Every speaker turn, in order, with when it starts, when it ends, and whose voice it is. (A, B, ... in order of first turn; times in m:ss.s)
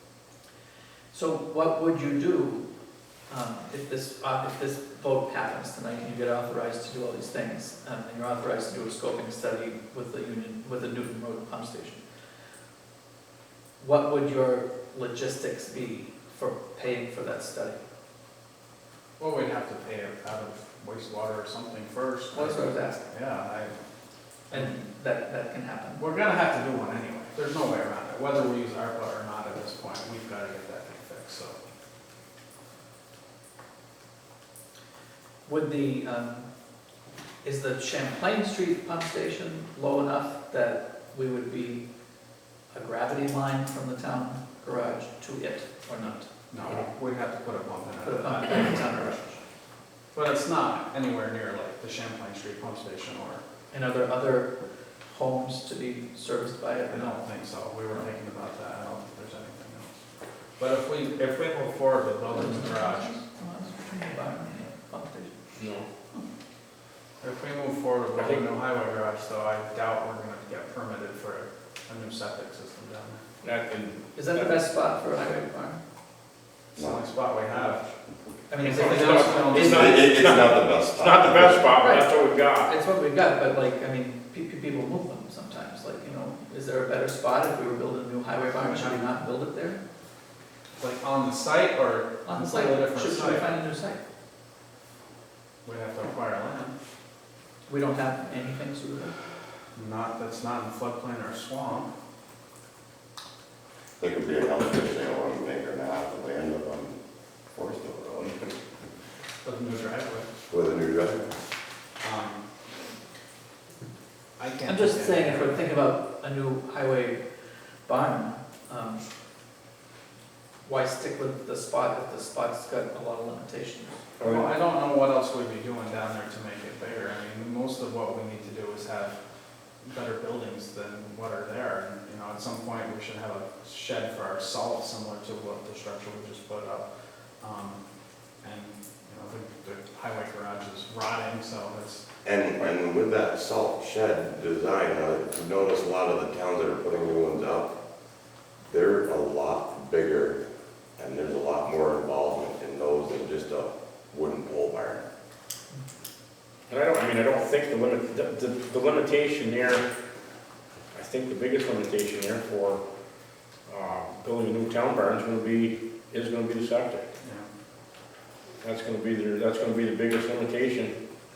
0:01.1-0:02.6 A
0:03.3-0:12.0 A
0:13.8-0:17.8 A
0:19.2-0:23.8 B
0:22.3-0:23.0 A
0:24.5-0:26.0 A
0:26.0-0:31.6 B
0:35.4-0:36.5 A
0:37.4-0:41.8 A
0:42.7-0:46.3 A
0:46.5-0:49.1 B
0:48.0-0:49.4 A
0:50.1-0:53.4 B
0:53.7-0:57.2 A
0:56.9-0:59.9 B
1:00.6-1:03.2 B
1:02.3-1:05.3 A
1:05.6-1:05.8 C
1:07.2-1:13.2 B
1:08.2-1:08.4 C
1:13.4-1:14.5 C
1:14.1-1:15.8 A
1:16.8-1:17.8 B
1:18.5-1:19.7 A
1:18.6-1:19.9 B
1:18.6-1:22.7 C
1:19.6-1:21.7 D
1:21.8-1:29.8 A
1:28.5-1:29.0 B
1:30.8-1:33.5 B
1:32.2-1:34.0 A
1:35.6-1:36.7 B
1:37.7-1:39.1 A
1:39.7-1:41.9 B
1:44.0-1:47.0 D
1:47.5-1:48.6 D
1:49.4-1:50.3 B
1:50.5-1:51.3 D
1:52.0-1:52.4 B
1:54.4-1:55.7 B
1:54.6-1:57.2 A
1:57.8-1:59.0 A
2:00.6-2:04.0 A
2:04.2-2:09.2 B
2:09.8-2:16.9 B
2:17.4-2:17.8 B
2:18.4-2:22.0 B
2:22.2-2:27.7 D
2:28.7-2:30.4 D
2:31.0-2:35.0 D
2:36.7-2:39.8 C
2:40.9-2:42.8 C
2:43.6-2:47.0 C
2:47.2-2:47.5 B
2:48.6-2:50.9 C